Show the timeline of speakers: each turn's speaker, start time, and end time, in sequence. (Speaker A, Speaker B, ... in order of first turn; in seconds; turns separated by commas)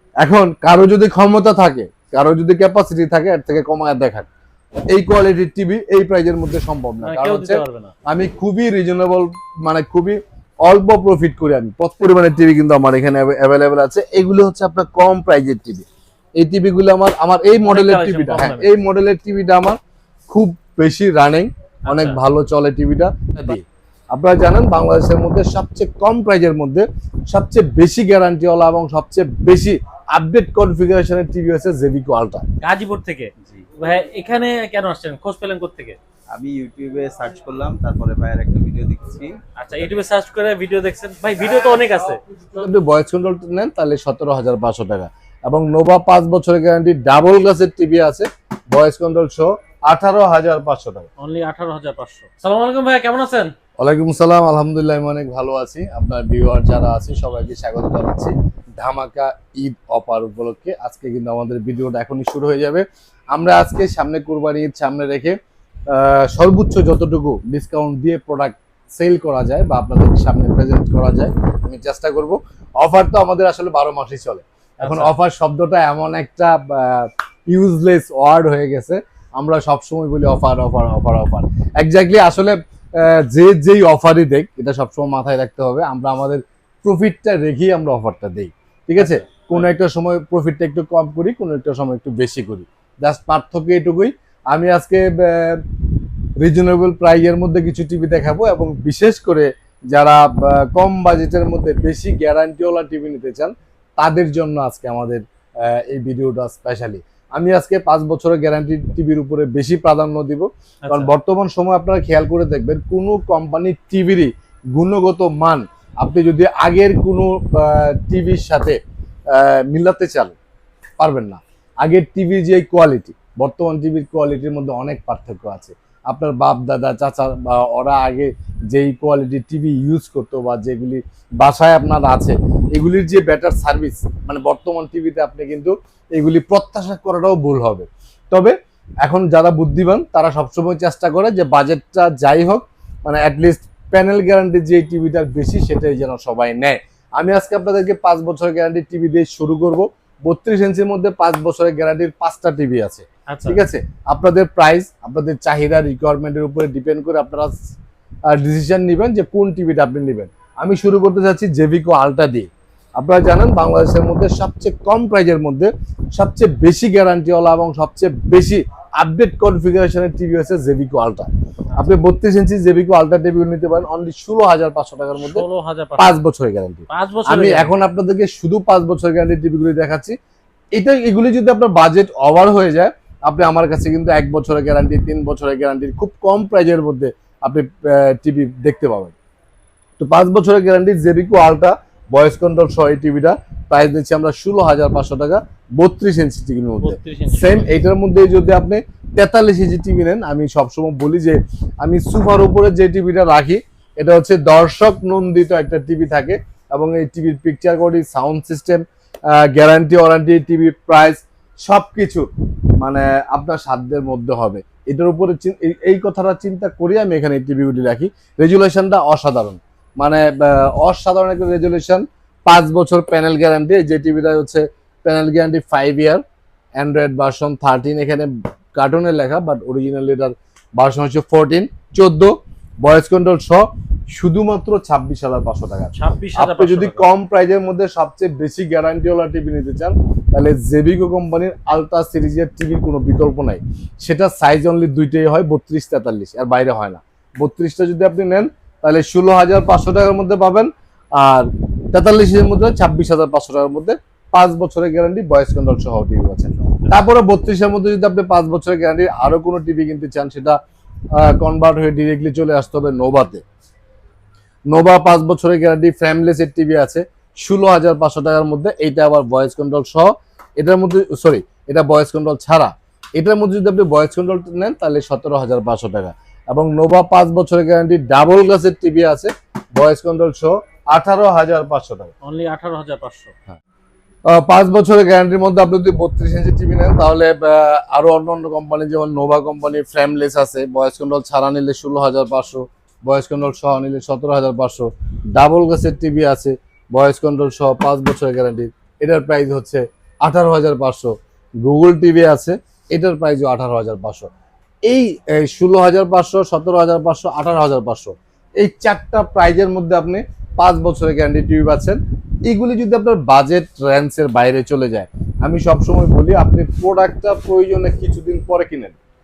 Speaker A: 0.2-4.3, Speaker A: 4.9-15.8, Speaker B: 7.0-7.9, Speaker A: 16.4-19.8, Speaker B: 17.6-18.7, Speaker A: 20.3-32.5, Speaker B: 21.9-22.2, Speaker B: 32.6-36.0, Speaker C: 33.4-33.7, Speaker C: 36.3-39.3, Speaker B: 39.5-42.2, Speaker A: 42.5-51.1, Speaker B: 51.2-53.5, Speaker A: 53.8-65.3, Speaker A: 65.9-95.7, Speaker B: 74.8-75.1, Speaker A: 96.4-118.8, Speaker B: 110.8-111.1, Speaker A: 119.3-120.3, Speaker A: 121.0-157.6, Speaker B: 153.3-153.6, Speaker A: 158.3-175.4, Speaker B: 175.2-176.2, Speaker A: 176.0-180.2, Speaker B: 176.9-177.7, Speaker A: 180.7-189.1, Speaker A: 190.0-212.2, Speaker B: 196.8-197.8, Speaker A: 212.8-226.2, Speaker A: 226.8-260.6, Speaker B: 235.9-237.0, Speaker C: 256.6-257.0, Speaker A: 261.1-263.4, Speaker A: 264.7-282.1, Speaker B: 282.2-283.3, Speaker A: 284.3-304.3, Speaker A: 304.9-318.9